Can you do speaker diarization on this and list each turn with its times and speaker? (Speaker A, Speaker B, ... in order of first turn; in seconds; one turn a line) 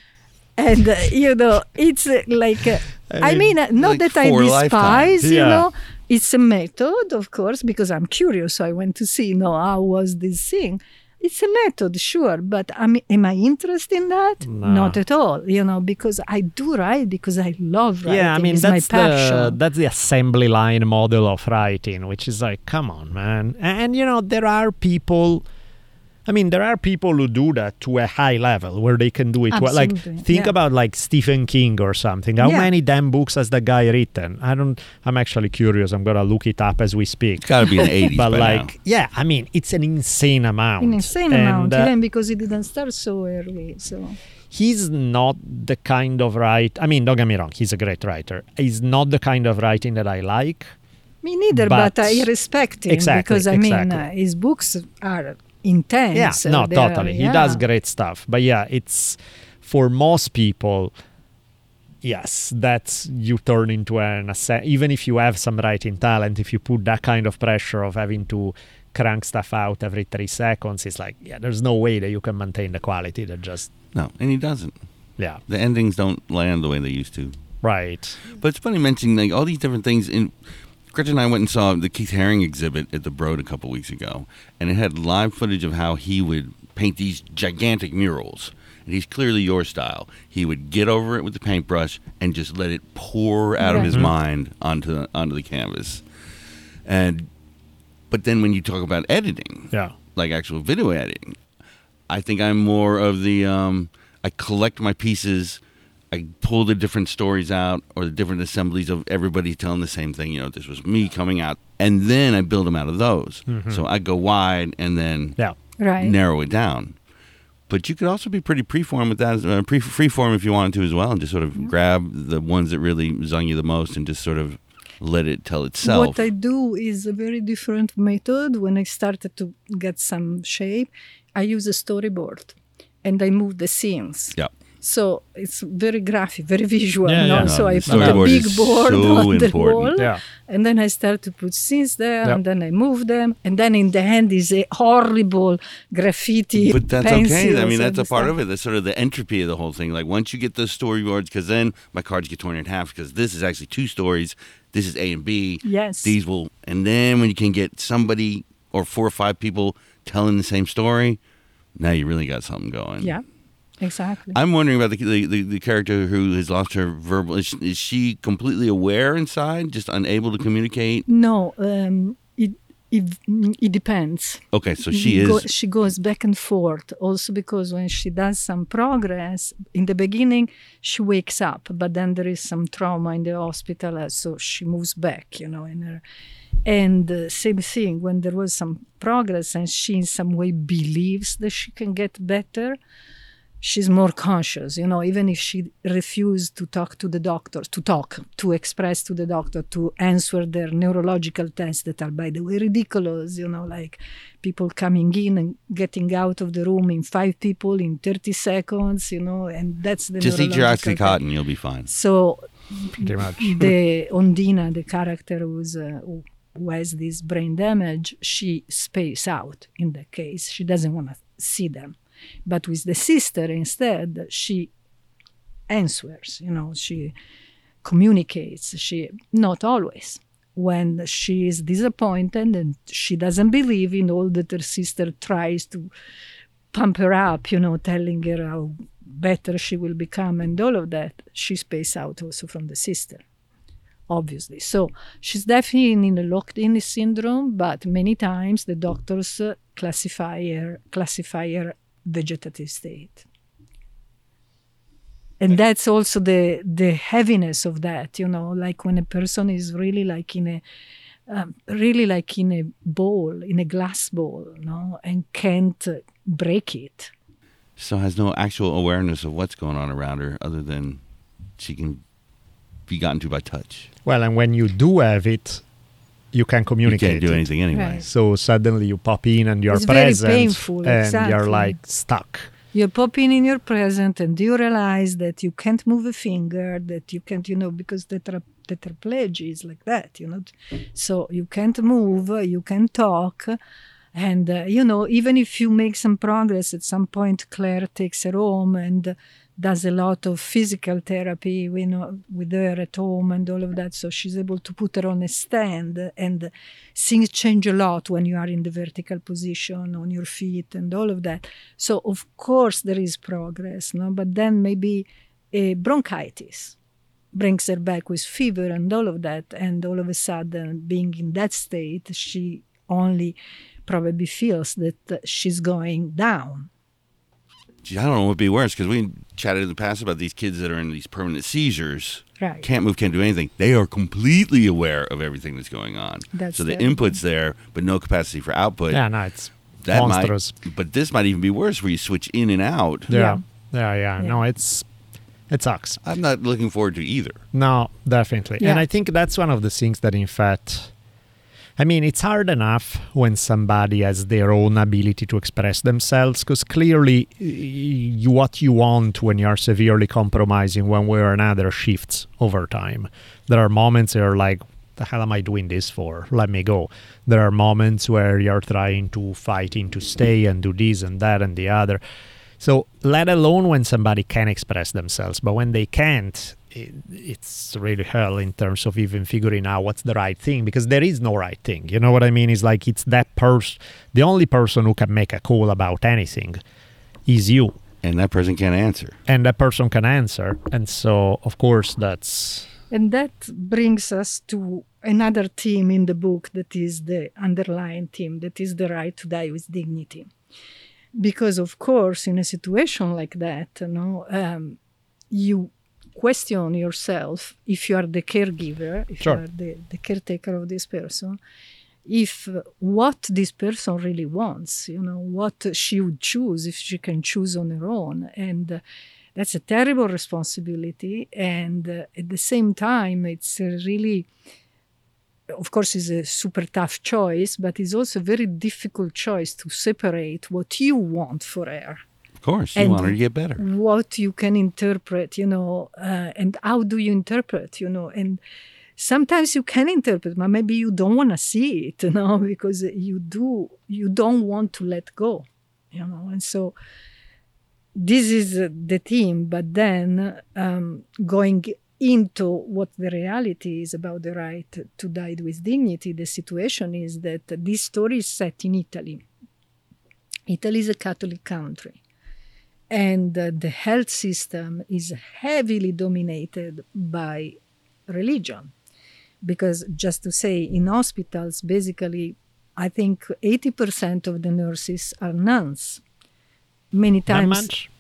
Speaker A: 0.6-19.6
Speaker B: 3.1-3.5
Speaker C: 3.7-5.2
Speaker B: 5.2-5.7
Speaker B: 14.5-15.0
Speaker B: 18.1-25.4
Speaker B: 26.3-41.9
Speaker A: 29.5-30.5
Speaker A: 32.4-32.7
Speaker C: 37.4-38.7
Speaker A: 40.8-44.2
Speaker B: 44.5-50.8
Speaker A: 51.2-57.6
Speaker B: 51.5-52.3
Speaker B: 52.9-54.0
Speaker B: 56.1-60.9
Speaker B: 62.0-73.7
Speaker C: 73.9-74.8
Speaker C: 75.5-77.3
Speaker B: 77.6-78.2
Speaker C: 78.3-80.3
Speaker C: 80.9-96.0
Speaker A: 93.6-93.9
Speaker B: 93.9-94.1
Speaker C: 96.8-97.3
Speaker C: 98.1-101.4
Speaker C: 102.1-105.6
Speaker C: 106.1-115.4
Speaker B: 113.5-113.8
Speaker A: 115.8-116.2
Speaker C: 116.0-117.0
Speaker C: 117.7-126.3
Speaker A: 125.8-148.3
Speaker B: 137.1-138.3
Speaker C: 137.4-139.9
Speaker B: 140.0-140.2
Speaker C: 146.6-161.2
Speaker A: 155.6-156.1
Speaker C: 161.8-163.1
Speaker A: 163.8-164.4
Speaker C: 164.3-171.1
Speaker A: 171.1-186.0
Speaker C: 174.5-175.5
Speaker A: 186.7-192.8
Speaker A: 193.6-211.2
Speaker C: 210.2-211.9
Speaker A: 211.9-224.7
Speaker B: 213.0-213.7
Speaker A: 225.7-227.1
Speaker A: 227.8-235.9
Speaker A: 236.7-243.2
Speaker A: 244.1-253.3
Speaker A: 255.4-260.6
Speaker A: 261.3-267.1
Speaker C: 267.8-271.0
Speaker C: 271.6-272.0
Speaker C: 272.9-273.9
Speaker B: 274.1-275.6
Speaker B: 276.3-277.5
Speaker C: 276.9-278.1
Speaker A: 277.7-278.1
Speaker B: 278.0-282.5
Speaker A: 279.7-281.8
Speaker A: 282.7-293.6
Speaker A: 294.1-316.8
Speaker A: 317.3-326.7
Speaker C: 327.8-339.0
Speaker A: 332.4-332.7
Speaker A: 336.3-337.2
Speaker B: 338.9-340.5
Speaker C: 339.8-343.1
Speaker B: 343.1-344.9
Speaker A: 343.1-343.4
Speaker B: 345.5-346.0
Speaker C: 346.0-347.4
Speaker B: 347.5-350.9
Speaker B: 351.8-372.0
Speaker B: 372.6-386.6
Speaker B: 387.3-387.8
Speaker C: 388.0-389.2
Speaker B: 389.3-392.7
Speaker A: 392.9-400.3
Speaker A: 401.1-404.8
Speaker A: 405.3-411.4
Speaker A: 412.1-418.8
Speaker A: 419.4-424.3
Speaker A: 425.5-432.0
Speaker C: 432.4-433.6
Speaker A: 432.8-438.4
Speaker A: 439.0-446.8
Speaker A: 447.9-459.2
Speaker A: 460.5-462.0
Speaker A: 462.9-468.7
Speaker A: 469.4-476.0
Speaker A: 476.9-477.7
Speaker B: 477.3-477.9